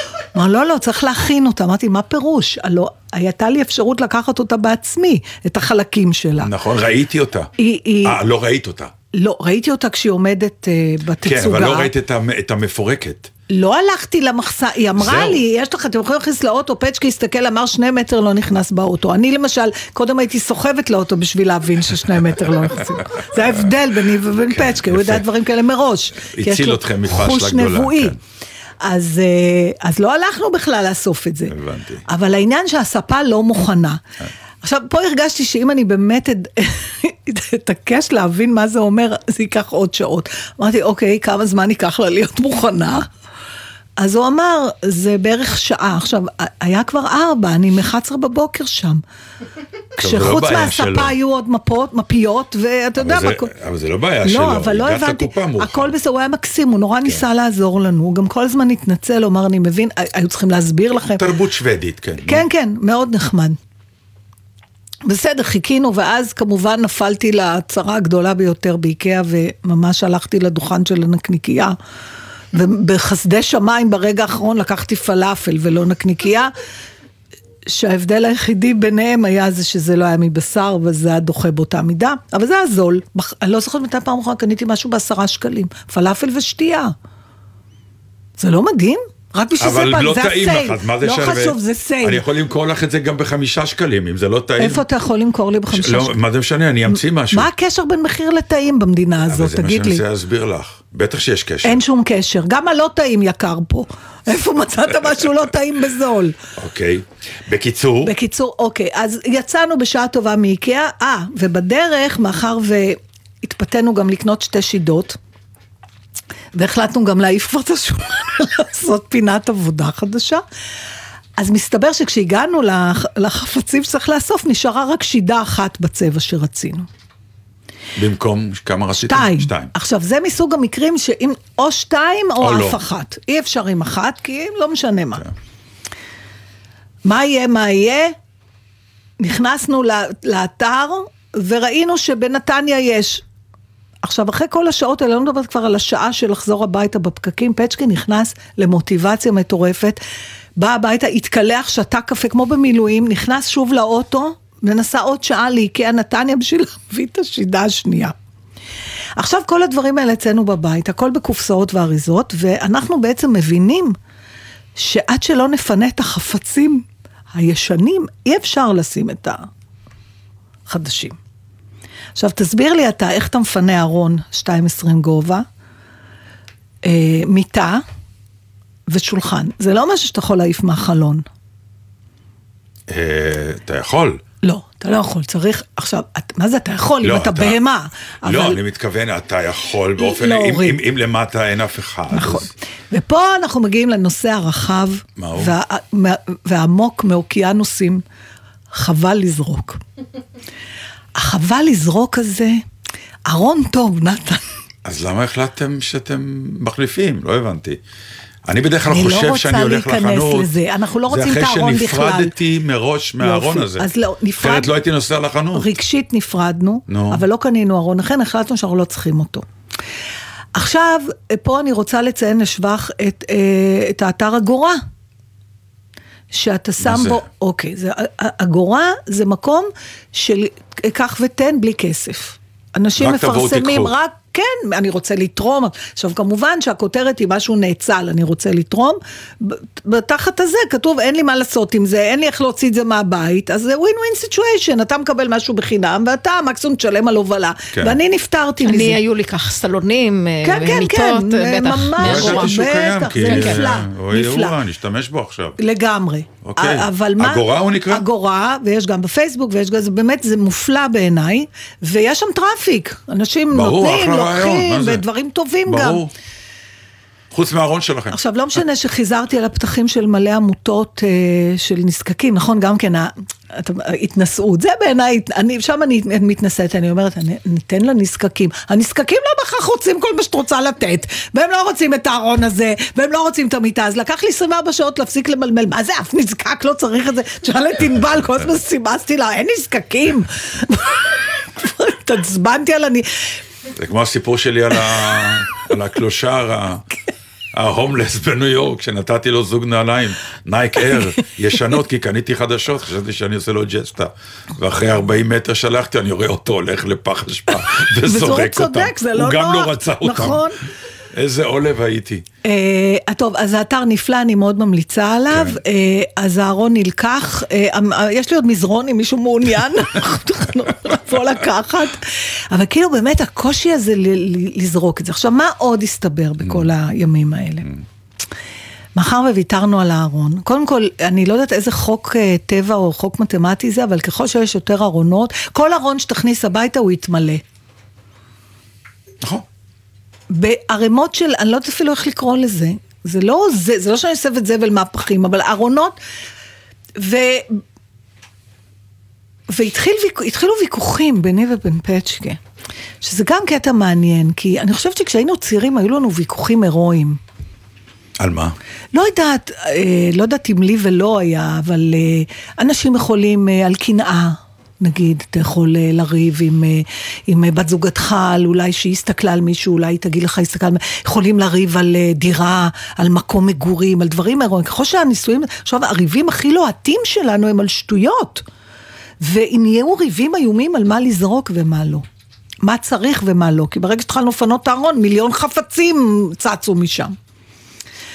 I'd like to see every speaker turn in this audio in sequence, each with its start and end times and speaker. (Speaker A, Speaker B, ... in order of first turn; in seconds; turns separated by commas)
Speaker A: 0.3-6.5, Speaker B: 6.4-7.5, Speaker A: 7.6-8.2, Speaker B: 8.0-8.9, Speaker A: 9.1-11.9, Speaker B: 11.2-13.3, Speaker A: 13.5-28.1, Speaker B: 15.0-15.4, Speaker B: 24.3-25.2, Speaker B: 26.3-28.2, Speaker A: 28.8-31.5, Speaker B: 31.5-32.0, Speaker A: 32.1-34.0, Speaker A: 34.6-43.1, Speaker A: 44.0-49.0, Speaker A: 50.0-53.5, Speaker B: 50.0-51.1, Speaker B: 53.0-55.9, Speaker A: 54.2-61.2, Speaker B: 61.2-62.5, Speaker A: 62.2-63.6, Speaker A: 65.0-71.8, Speaker A: 72.5-76.5, Speaker A: 77.7-86.9, Speaker A: 88.4-92.2, Speaker B: 89.6-94.8, Speaker A: 94.6-96.2, Speaker B: 95.7-97.5, Speaker A: 96.9-100.0, Speaker B: 99.2-101.8, Speaker A: 101.6-106.4, Speaker B: 106.6-108.1, Speaker A: 108.0-115.2, Speaker A: 116.5-120.4, Speaker A: 121.4-126.9, Speaker B: 128.0-129.7, Speaker A: 128.9-135.2, Speaker B: 132.4-132.8, Speaker A: 137.1-138.2, Speaker A: 139.2-143.2, Speaker A: 144.0-150.0, Speaker A: 150.6-158.2, Speaker A: 159.2-164.0, Speaker A: 164.8-169.5, Speaker A: 170.7-171.2, Speaker A: 172.2-175.4, Speaker A: 176.8-177.8, Speaker A: 178.9-181.2, Speaker B: 182.9-184.2, Speaker A: 184.4-188.6, Speaker B: 187.0-187.6, Speaker B: 188.2-192.5, Speaker A: 190.0-190.8, Speaker A: 192.1-198.0, Speaker B: 195.2-195.6, Speaker A: 198.7-199.8, Speaker A: 201.2-202.6, Speaker A: 203.3-204.4, Speaker B: 204.8-207.8, Speaker B: 208.5-210.6, Speaker A: 208.9-212.3, Speaker B: 211.1-215.7, Speaker A: 213.2-214.7, Speaker A: 215.5-219.4, Speaker B: 216.9-217.2, Speaker A: 220.6-224.8, Speaker A: 226.3-249.0, Speaker B: 226.8-227.2, Speaker B: 233.0-233.9, Speaker B: 247.7-248.0, Speaker C: 248.6-252.6, Speaker A: 250.4-254.6, Speaker B: 252.0-255.6, Speaker C: 253.2-253.6, Speaker A: 255.6-266.0, Speaker B: 256.4-258.1, Speaker B: 263.5-265.1, Speaker B: 265.6-266.1, Speaker B: 267.3-268.2, Speaker A: 268.1-293.3, Speaker B: 293.8-296.9, Speaker B: 297.5-310.5, Speaker A: 307.5-310.6, Speaker B: 311.1-312.2, Speaker A: 312.4-327.7, Speaker B: 315.3-315.6, Speaker B: 326.4-326.7, Speaker A: 329.0-337.4, Speaker A: 340.3-346.0, Speaker A: 347.0-347.6, Speaker A: 349.5-352.4, Speaker A: 353.0-357.2, Speaker B: 358.2-358.6, Speaker A: 358.9-378.4, Speaker A: 379.2-382.0, Speaker A: 382.6-387.1